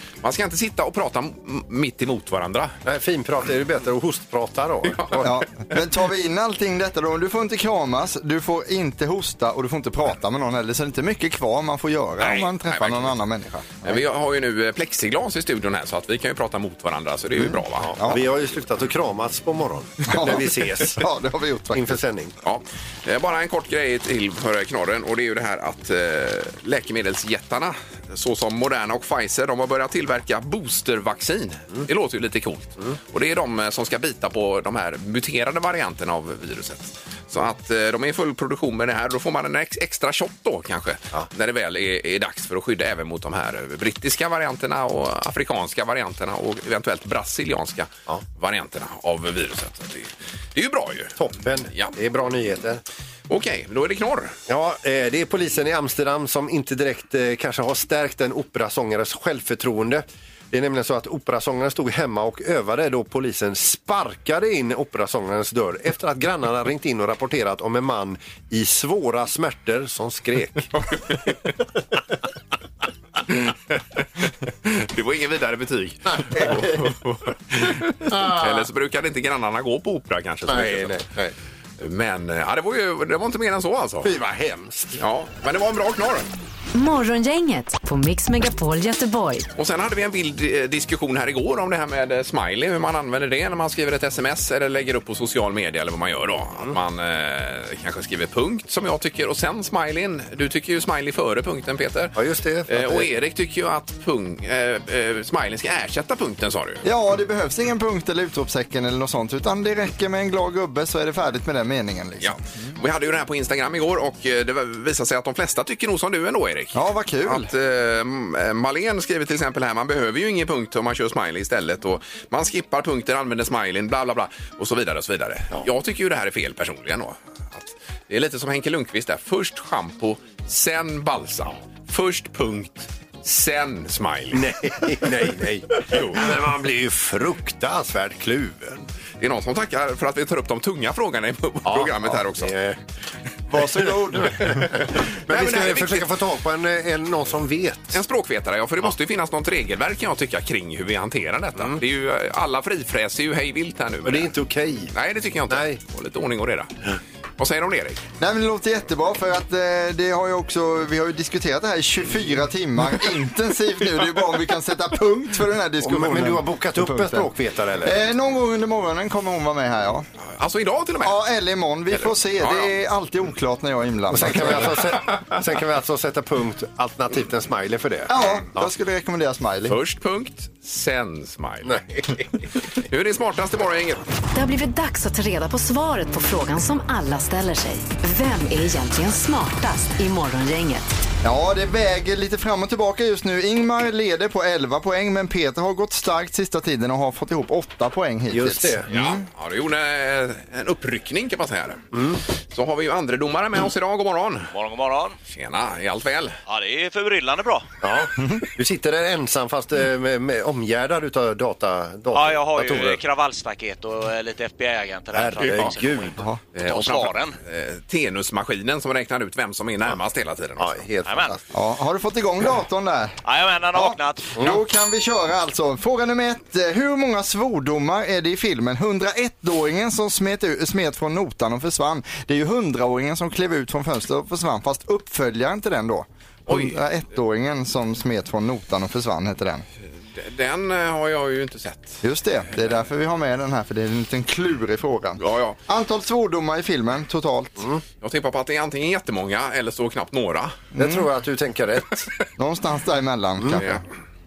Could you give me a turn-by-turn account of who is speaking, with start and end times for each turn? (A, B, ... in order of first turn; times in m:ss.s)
0:00.2-0:02.7 A
0:02.8-0:05.3 B
0:04.9-0:05.3 A
0:05.2-0:14.0 C
0:12.2-0:13.1 A
0:13.8-0:18.0 A
0:17.8-0:21.0 B
0:18.0-0:18.2 C
0:20.1-0:22.0 C
0:21.7-0:22.4 B
0:22.4-0:51.2 A
0:51.2-0:52.8 B
0:53.3-0:54.4 A
0:54.5-1:10.7 B
1:10.9-1:11.2 A
1:13.3-1:21.0 A
1:16.1-1:16.9 B
1:18.0-1:18.7 B
1:20.5-1:21.3 B
1:21.8-1:24.1 A
1:24.0-1:25.0 B
1:25.0-1:26.3 A
1:26.7-1:29.5 D
1:29.6-1:42.2 A
1:42.1-1:43.1 B
1:42.7-1:46.8 A
1:46.8-1:52.4 C
1:52.2-2:14.5 A
1:56.7-1:57.5 C
2:14.3-2:18.8 B
2:15.9-2:16.2 A
2:19.2-2:22.5 A
2:21.6-2:22.8 B
2:23.5-2:24.5 C
2:24.2-2:28.0 B
2:25.3-2:26.1 A
2:27.9-2:34.3 A
2:34.0-2:34.9 B
2:34.9-2:36.7 A
2:35.5-2:35.8 B
2:37.4-2:38.0 A
2:38.2-2:47.3 C
2:45.8-2:48.0 B
2:47.8-2:50.1 C
2:50.4-2:51.2 A
2:51.0-2:54.7 C
2:52.4-2:52.7 A
2:54.1-2:58.7 B
2:58.1-2:59.8 C
2:59.7-3:02.2 A
3:01.6-3:02.1 B
3:02.8-3:04.0 A
3:04.3-3:10.9 D
3:11.2-3:19.2 C
3:18.3-3:18.9 B
3:18.9-3:21.8 A
3:21.9-3:22.2 B
3:22.5-3:24.5 A
3:24.5-3:25.2 E
3:25.3-3:26.4 A
3:26.5-3:27.7 E
3:27.8-3:33.0 B
3:32.1-3:37.4 E
3:35.1-3:36.2 B
3:35.5-3:35.7 A
3:36.5-3:40.9 A
3:40.6-3:41.4 B
3:41.0-3:41.4 E
3:41.5-3:43.2 C
3:43.2-3:44.4 E
3:43.7-3:59.6 C
3:56.5-3:56.8 A
4:00.1-4:02.0 A
4:02.0-4:07.6 C
4:05.2-4:05.6 A
4:08.0-4:10.6 A
4:10.8-4:11.1 C
4:10.8-4:12.1 B
4:12.4-4:13.8 C
4:13.6-4:13.8 A